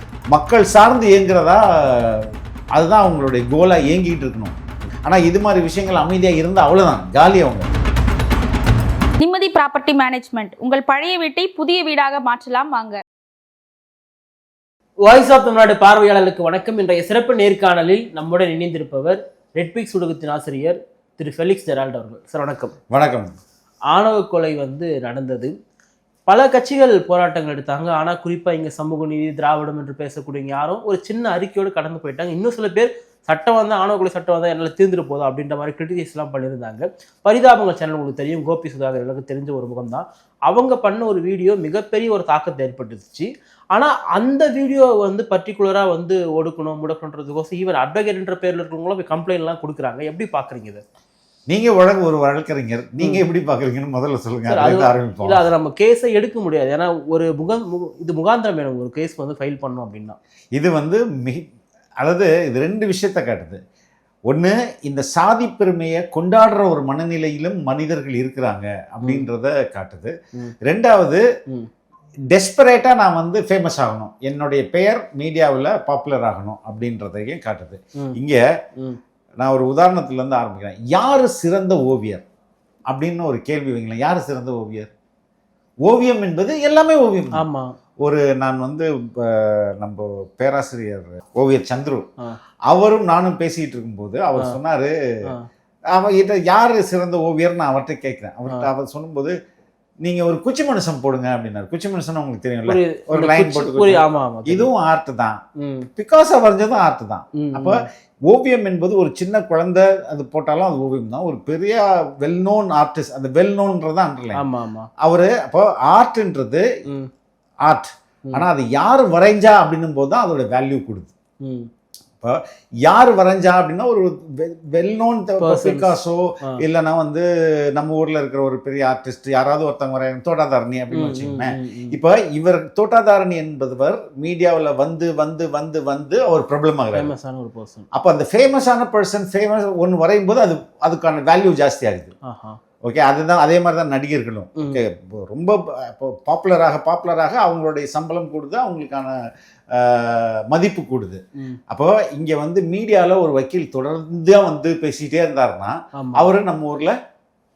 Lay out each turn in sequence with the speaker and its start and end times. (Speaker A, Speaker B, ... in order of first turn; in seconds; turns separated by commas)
Speaker A: 0.3-7.7, Speaker B: 9.2-13.0, Speaker C: 15.0-22.7, Speaker A: 22.9-23.3, Speaker C: 23.9-25.5, Speaker C: 26.3-50.8, Speaker A: 51.5-55.4, Speaker C: 54.5-60.2, Speaker A: 60.5-61.4, Speaker A: 62.0-63.6, Speaker A: 64.3-70.1, Speaker A: 70.6-71.2, Speaker A: 72.3-78.4, Speaker A: 79.4-82.2, Speaker A: 82.9-84.9, Speaker A: 85.9-87.4, Speaker C: 87.4-87.7, Speaker A: 88.0-92.1, Speaker A: 92.7-94.9, Speaker A: 95.9-99.3, Speaker A: 100.0-105.4, Speaker C: 102.7-104.7, Speaker C: 105.6-105.9, Speaker A: 106.0-114.4, Speaker C: 107.4-107.8, Speaker C: 114.3-114.9, Speaker A: 115.0-116.6, Speaker A: 117.7-121.1, Speaker C: 121.4-121.7, Speaker A: 122.2-137.1, Speaker C: 125.4-125.9, Speaker C: 130.9-131.9, Speaker C: 136.9-137.9, Speaker A: 137.9-142.1, Speaker C: 142.2-142.6, Speaker A: 142.8-149.1, Speaker A: 149.7-151.2, Speaker A: 151.7-156.9, Speaker C: 155.9-156.2